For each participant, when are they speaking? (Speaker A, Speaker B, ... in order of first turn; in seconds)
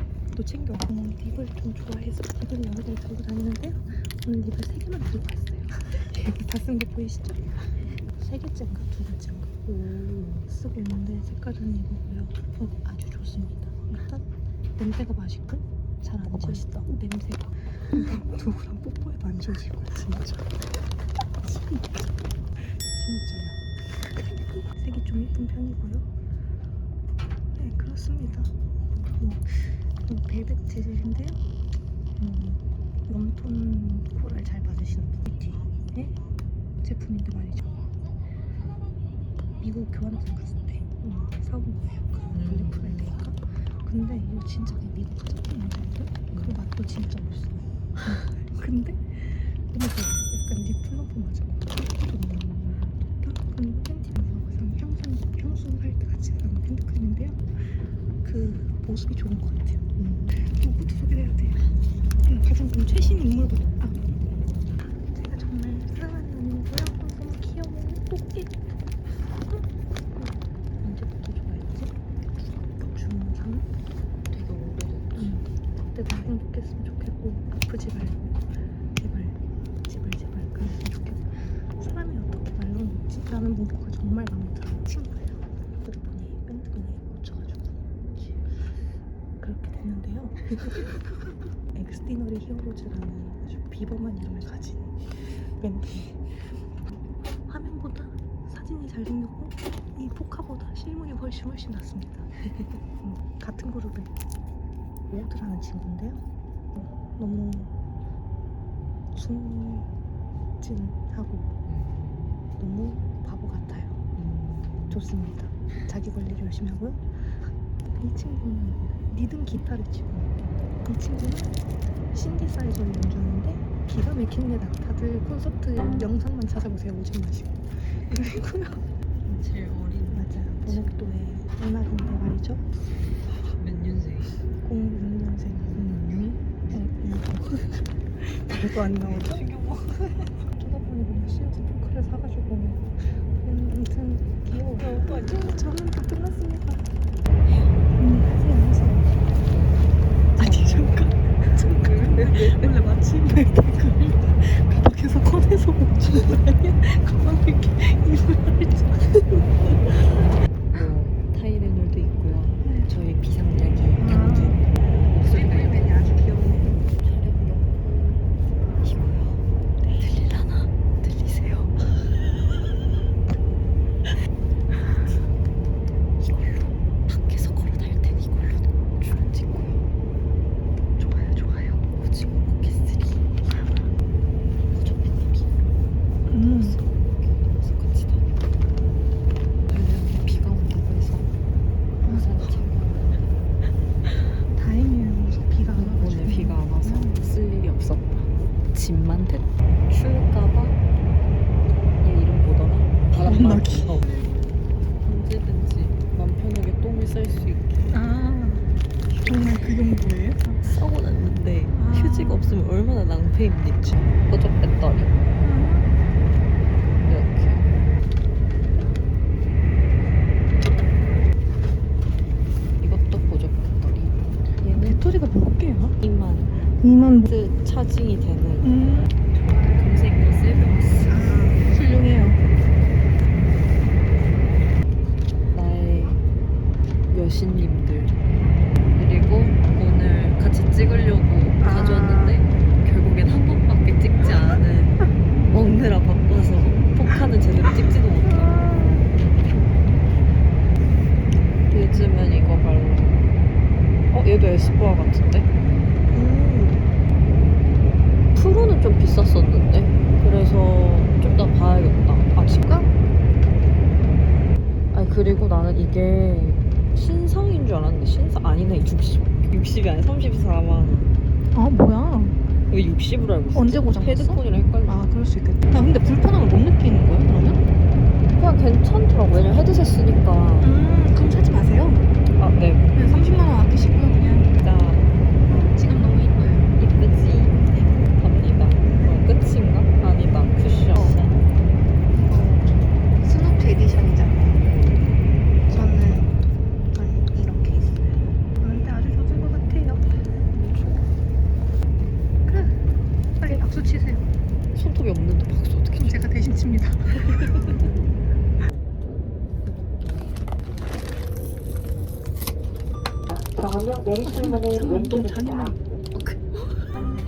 Speaker A: 0.3-14.2, 14.8-20.6, 21.4-26.1, 27.6-31.4, 32.2-36.2, 36.8-37.8, 39.6-61.6, 62.2-64.2, 65.0-73.7, 75.1-88.8, 89.4-104.1, 105.1-106.2, 106.8-107.7, 109.1-109.9, 110.6-111.6, 112.5-114.1, 114.9-121.6, 122.1-128.8, 130.1-132.7, 134.6-139.5, 140.3-146.9, 148.0-149.4, 150.3-160.0, 164.1-164.5, 165.2-166.5, 194.5-197.1, 203.2-204.3, 224.6-226.0, 226.8-227.2, 256.1-256.7, 298.6-300.0, 303.4-303.8
Speaker B: 16.2-16.7, 42.3-43.3, 74.3-75.4, 111.8-112.2, 114.2-114.9, 129.2-130.9, 133.1-134.4, 135.7-136.1, 138.7-140.3, 150.4-151.0, 151.9-152.7, 160.7-165.9, 166.8-168.2, 168.8-172.1, 176.2-179.8, 181.0-183.3, 184.7-185.5, 186.3-188.6, 189.7-191.3, 192.1-193.4, 195.7-200.8, 201.9-204.2, 205.0-208.0, 209.1-209.6, 210.6-215.2, 217.1-217.8, 222.8-225.0, 226.0-226.7, 227.2-231.2, 235.5-236.2, 237.1-238.2, 238.9-248.7, 251.7-253.3, 254.1-255.5, 258.3-262.9, 264.9-271.1, 272.7-275.0, 278.3-280.7, 282.4-283.5, 284.5-285.2, 286.8-291.4, 300.5-301.1, 304.7-306.2, 307.3-307.8, 309.6-310.4, 316.2-316.6
Speaker C: 164.0-164.5, 165.3-166.1, 186.3-186.8, 203.5-203.8, 207.9-208.6, 209.2-210.4, 211.7-212.4, 215.4-215.8, 228.6-229.1, 230.9-232.4, 241.6-242.4, 271.5-272.4, 273.5-277.6, 280.6-282.0, 282.9-284.5, 285.5-286.7, 287.5-287.9, 288.8-289.1, 292.1-294.7, 295.7-296.3, 296.9-298.2, 303.4-304.2, 306.0-307.2, 314.2-315.8
Speaker D: 313.3-315.8